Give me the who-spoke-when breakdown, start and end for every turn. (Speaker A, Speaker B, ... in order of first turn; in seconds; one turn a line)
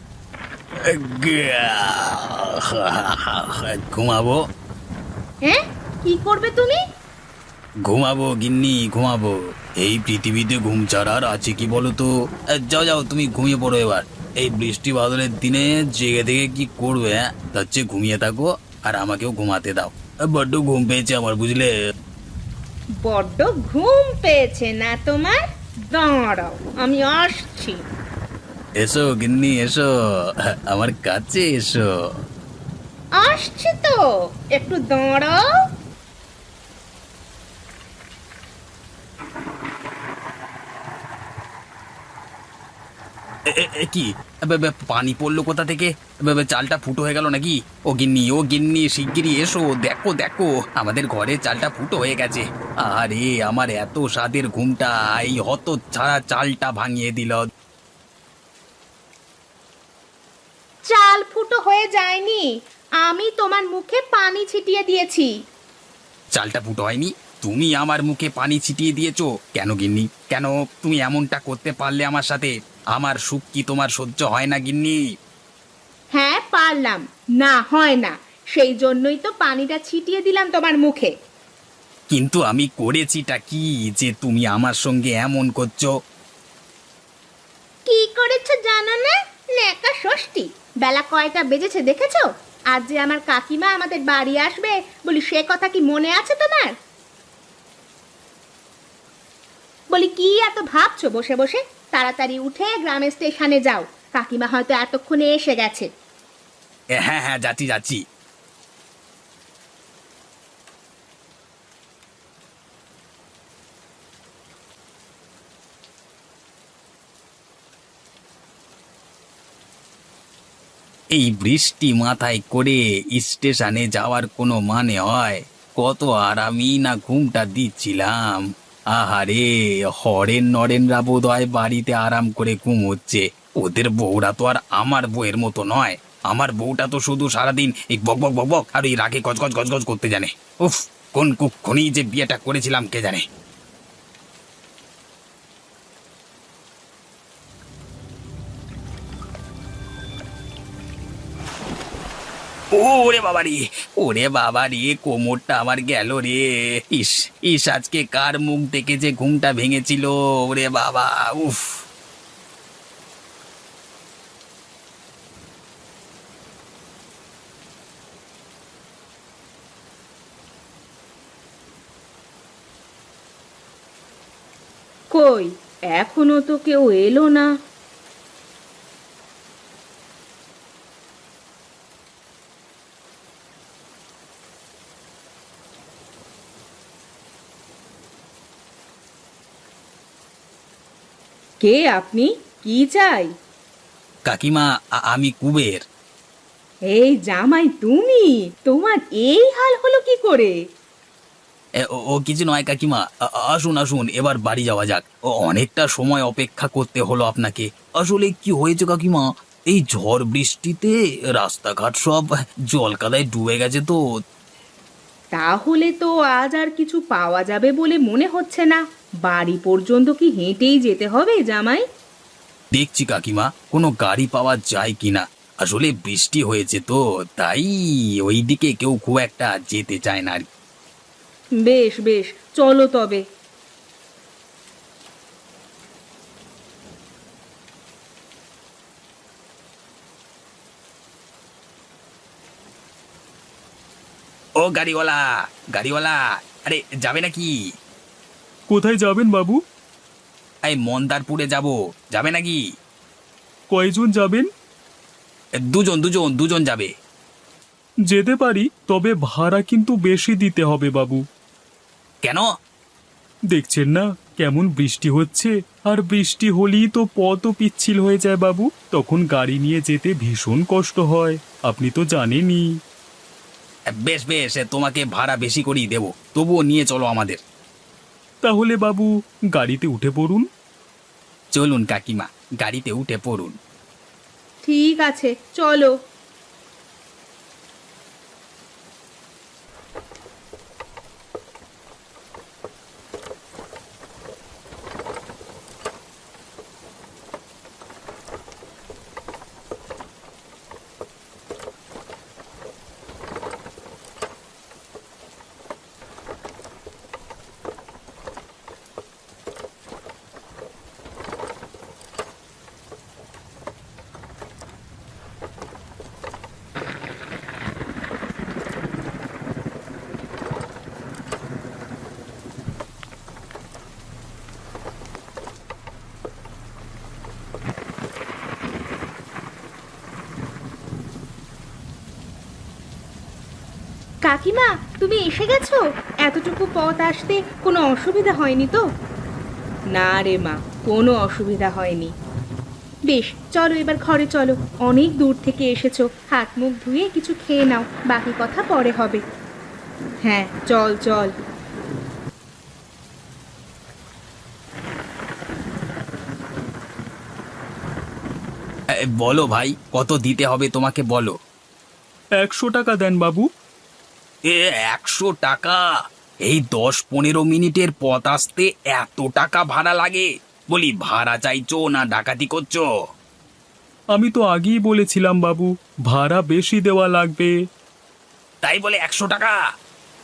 Speaker A: 0.9-4.4
Speaker B: 5.4-6.8
Speaker A: 7.9-21.7
Speaker B: 23.0-25.4
Speaker B: 25.9-27.8
Speaker A: 28.8-29.9
Speaker A: 30.7-31.9
Speaker B: 33.2-34.0
Speaker B: 34.5-35.4
Speaker A: 43.5-57.5
Speaker B: 60.9-62.5
Speaker B: 63.0-65.3
Speaker A: 66.3-75.0
Speaker B: 76.1-81.1
Speaker A: 82.1-85.9
Speaker B: 87.9-96.7
Speaker B: 99.9-105.9
Speaker A: 107.0-108.0
Speaker A: 121.1-143.2
Speaker A: 152.7-161.8
Speaker B: 175.1-177.5
Speaker B: 191.6-193.3
Speaker A: 194.3-195.8
Speaker B: 196.9-200.5
Speaker A: 201.8-214.0
Speaker B: 215.3-221.8
Speaker A: 222.7-227.7
Speaker A: 228.2-230.5
Speaker B: 231.6-233.2
Speaker A: 244.6-247.5
Speaker C: 248.7-249.6
Speaker A: 250.7-252.6
Speaker C: 253.7-254.5
Speaker A: 255.6-256.9
Speaker C: 258.1-261.2
Speaker C: 263.5-272.7
Speaker A: 273.9-277.4
Speaker C: 278.4-280.5
Speaker A: 281.5-283.6
Speaker B: 284.6-285.9
Speaker B: 334.3-338.8
Speaker B: 339.9-342.1
Speaker B: 343.1-349.2
Speaker B: 350.2-351.3
Speaker A: 358.9-361.3
Speaker C: 362.4-363.5
Speaker A: 364.5-365.8
Speaker A: 366.4-372.8
Speaker C: 374.1-377.5
Speaker A: 378.6-379.6